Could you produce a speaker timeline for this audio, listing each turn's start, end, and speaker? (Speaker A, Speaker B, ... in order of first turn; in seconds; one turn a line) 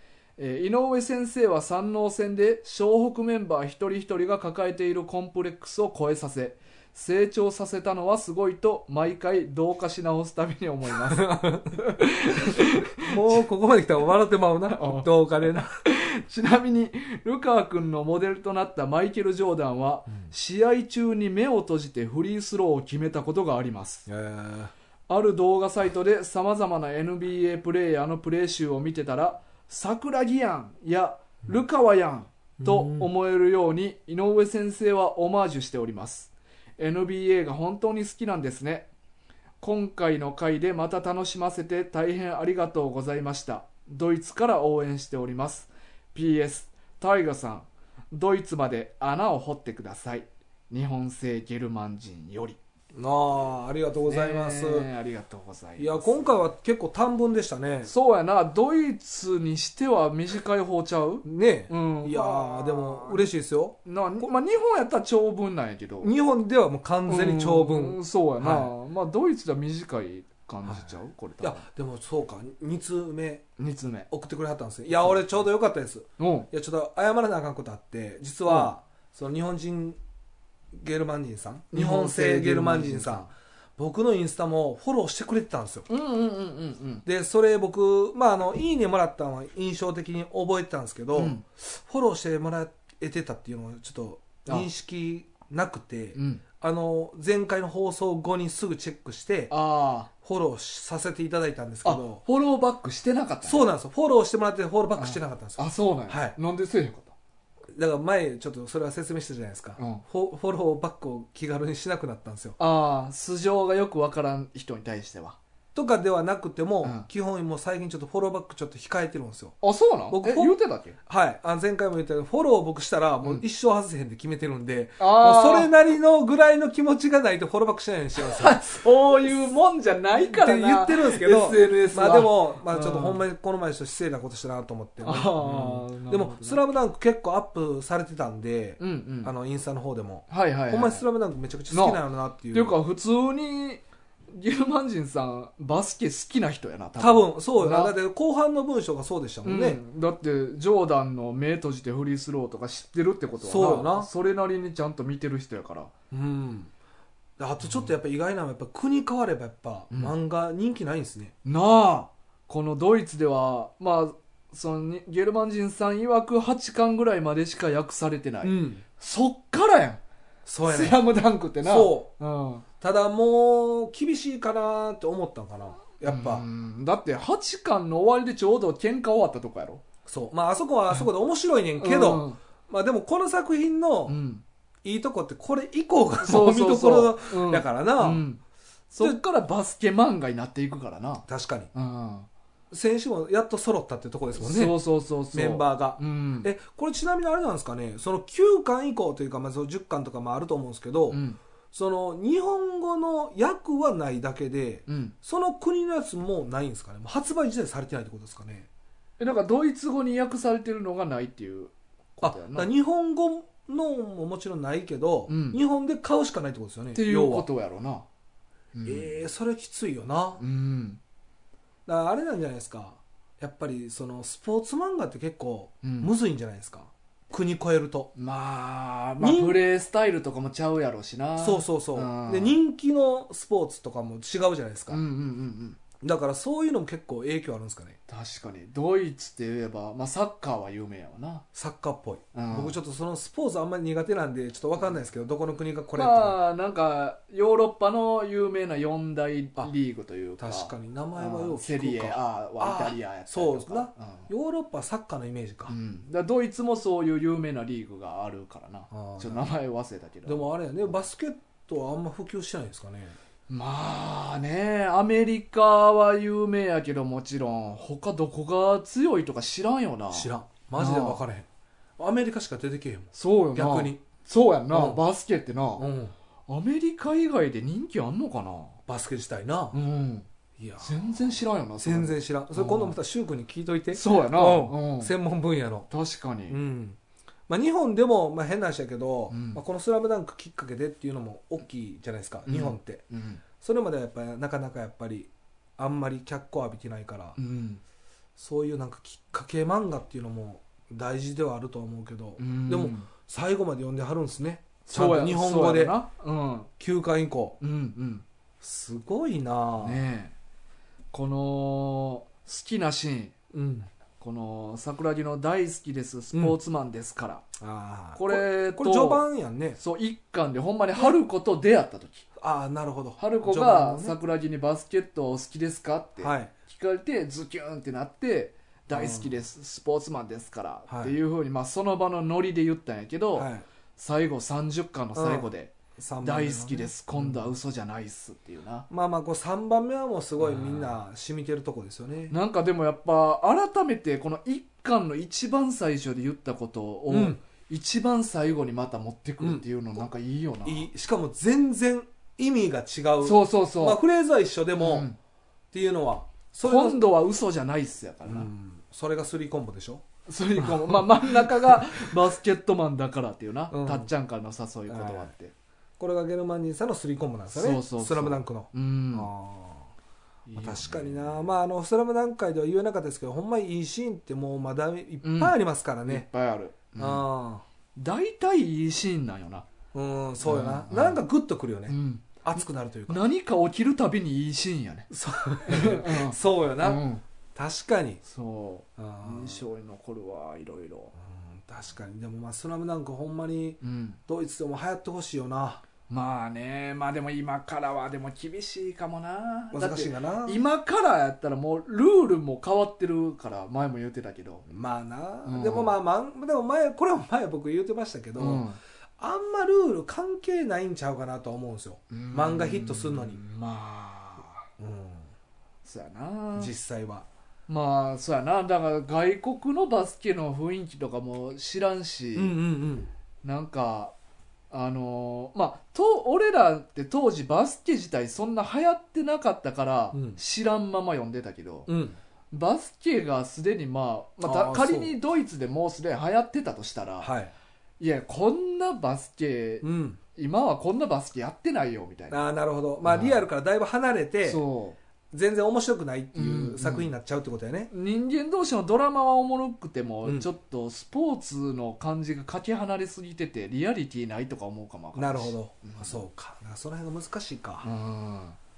Speaker A: 0.4-13.4
Speaker B: 11.1-11.8
Speaker B: 13.0-15.7
Speaker A: 14.7-15.1
Speaker A: 15.8-24.1
Speaker B: 24.1-24.7
Speaker A: 25.1-38.9
Speaker B: 32.6-33.1
Speaker A: 39.6-52.6
Speaker B: 52.9-54.9
Speaker A: 54.1-56.4
Speaker B: 55.8-57.9
Speaker A: 57.9-63.3
Speaker B: 61.2-64.3
Speaker A: 63.9-66.1
Speaker B: 66.0-68.7
Speaker A: 67.1-71.7
Speaker B: 70.7-73.5
Speaker A: 73.6-74.1
Speaker B: 74.1-80.0
Speaker A: 76.2-76.5
Speaker B: 80.7-85.9
Speaker A: 81.7-83.3
Speaker A: 85.9-87.0
Speaker B: 87.0-99.5
Speaker A: 91.2-91.4
Speaker A: 96.1-96.4
Speaker A: 99.5-100.1
Speaker B: 100.2-102.2
Speaker A: 101.8-103.6
Speaker B: 103.5-106.4
Speaker A: 105.0-107.1
Speaker B: 107.7-112.6
Speaker A: 109.8-110.0
Speaker A: 112.6-115.4
Speaker B: 115.8-119.6
Speaker A: 119.6-121.0
Speaker B: 120.1-128.6
Speaker A: 125.0-125.7
Speaker A: 128.2-133.2
Speaker B: 130.2-142.8
Speaker A: 135.0-136.6
Speaker A: 138.8-139.3
Speaker A: 140.3-141.1
Speaker A: 141.7-142.0
Speaker A: 142.5-147.9
Speaker B: 147.0-149.8
Speaker A: 149.4-155.9
Speaker B: 153.4-154.1
Speaker B: 156.1-156.7
Speaker B: 157.4-161.3
Speaker A: 161.4-170.0
Speaker B: 168.4-168.8
Speaker B: 170.5-171.0
Speaker A: 170.7-172.7
Speaker B: 171.6-172.1
Speaker B: 172.8-176.4
Speaker A: 176.1-179.8
Speaker B: 180.1-184.2
Speaker A: 181.8-182.4
Speaker A: 184.1-184.4
Speaker B: 184.8-188.2
Speaker A: 186.2-192.3
Speaker B: 191.3-191.7
Speaker B: 192.7-194.8
Speaker A: 194.4-196.5
Speaker B: 195.3-201.2
Speaker A: 201.1-201.4
Speaker B: 201.7-208.7
Speaker A: 204.9-205.2
Speaker A: 209.2-212.7
Speaker B: 212.2-217.5
Speaker A: 215.3-215.6
Speaker A: 216.9-218.1
Speaker A: 218.8-219.1
Speaker B: 218.8-220.4
Speaker A: 220.4-221.0
Speaker B: 221.9-228.1
Speaker A: 225.8-226.1
Speaker A: 228.2-232.6
Speaker B: 229.2-229.6
Speaker B: 231.4-235.0
Speaker A: 234.9-235.8
Speaker B: 236.0-238.0
Speaker A: 238.1-241.4
Speaker B: 241.5-246.4
Speaker A: 242.3-242.8
Speaker A: 245.9-254.3
Speaker B: 250.4-255.8
Speaker A: 255.7-260.4
Speaker B: 258.9-259.5
Speaker B: 260.3-263.2
Speaker A: 263.5-271.2
Speaker B: 270.1-271.5
Speaker B: 272.0-274.0
Speaker A: 273.1-275.9
Speaker B: 274.7-275.0
Speaker B: 275.8-276.1
Speaker A: 276.5-278.8
Speaker B: 278.9-279.8
Speaker A: 279.7-280.3
Speaker B: 280.6-281.2
Speaker A: 280.8-283.0
Speaker B: 281.8-285.9
Speaker A: 283.9-285.1
Speaker A: 285.9-286.6
Speaker B: 286.5-287.0
Speaker B: 287.5-293.0
Speaker A: 289.3-289.6
Speaker A: 292.5-293.4
Speaker B: 293.6-297.4
Speaker A: 297.4-297.8
Speaker B: 298.4-306.0
Speaker A: 302.4-303.1
Speaker A: 304.9-306.7
Speaker B: 306.8-307.6
Speaker A: 307.6-308.2
Speaker B: 308.6-310.0
Speaker A: 309.8-310.3
Speaker A: 311.1-313.3
Speaker B: 313.5-313.9
Speaker A: 314.2-317.4
Speaker B: 317.6-319.8
Speaker A: 318.2-319.3
Speaker A: 319.8-322.3
Speaker B: 322.4-324.2
Speaker A: 323.2-338.9
Speaker B: 326.2-326.5
Speaker B: 328.9-329.3
Speaker B: 330.9-331.1
Speaker B: 333.4-333.6
Speaker B: 335.1-337.4
Speaker B: 338.9-342.4
Speaker A: 340.4-341.0
Speaker A: 342.3-350.9
Speaker B: 347.1-347.4
Speaker B: 350.6-355.1
Speaker A: 353.2-354.0
Speaker A: 354.8-355.2
Speaker B: 355.7-357.0
Speaker A: 356.6-358.5
Speaker B: 358.3-360.1
Speaker A: 360.3-365.5
Speaker B: 360.6-362.1
Speaker B: 363.7-364.1
Speaker B: 364.9-365.3
Speaker B: 366.0-369.9
Speaker A: 367.5-369.3
Speaker A: 370.5-371.5
Speaker B: 370.6-376.3
Speaker A: 375.2-375.6
Speaker A: 376.1-377.3
Speaker B: 377.0-377.6
Speaker A: 378.0-379.7
Speaker B: 379.9-383.2
Speaker A: 380.4-381.2
Speaker A: 381.9-385.1
Speaker B: 385.1-387.0
Speaker A: 385.7-387.2
Speaker B: 387.6-388.2
Speaker A: 388.2-391.1
Speaker B: 389.0-389.6
Speaker B: 391.2-395.8
Speaker A: 393.8-394.2
Speaker A: 396.1-404.7
Speaker B: 399.7-400.6
Speaker B: 404.7-408.6
Speaker A: 405.4-405.9
Speaker A: 408.4-408.8
Speaker B: 409.2-413.4
Speaker A: 412.1-414.6
Speaker B: 414.8-415.3
Speaker A: 415.8-416.7
Speaker B: 416.6-417.3
Speaker A: 417.7-422.6
Speaker B: 422.4-423.1
Speaker A: 423.4-424.1
Speaker A: 424.7-431.9
Speaker B: 430.1-430.4
Speaker B: 431.9-432.2
Speaker A: 432.5-437.3
Speaker B: 434.4-435.1
Speaker B: 437.2-437.5
Speaker A: 438.0-442.4
Speaker B: 439.8-440.2
Speaker B: 442.3-444.6
Speaker A: 443.0-443.4
Speaker A: 444.4-445.0
Speaker B: 445.3-447.9
Speaker A: 446.3-447.1
Speaker A: 447.9-456.2
Speaker B: 455.1-457.9
Speaker A: 457.8-458.6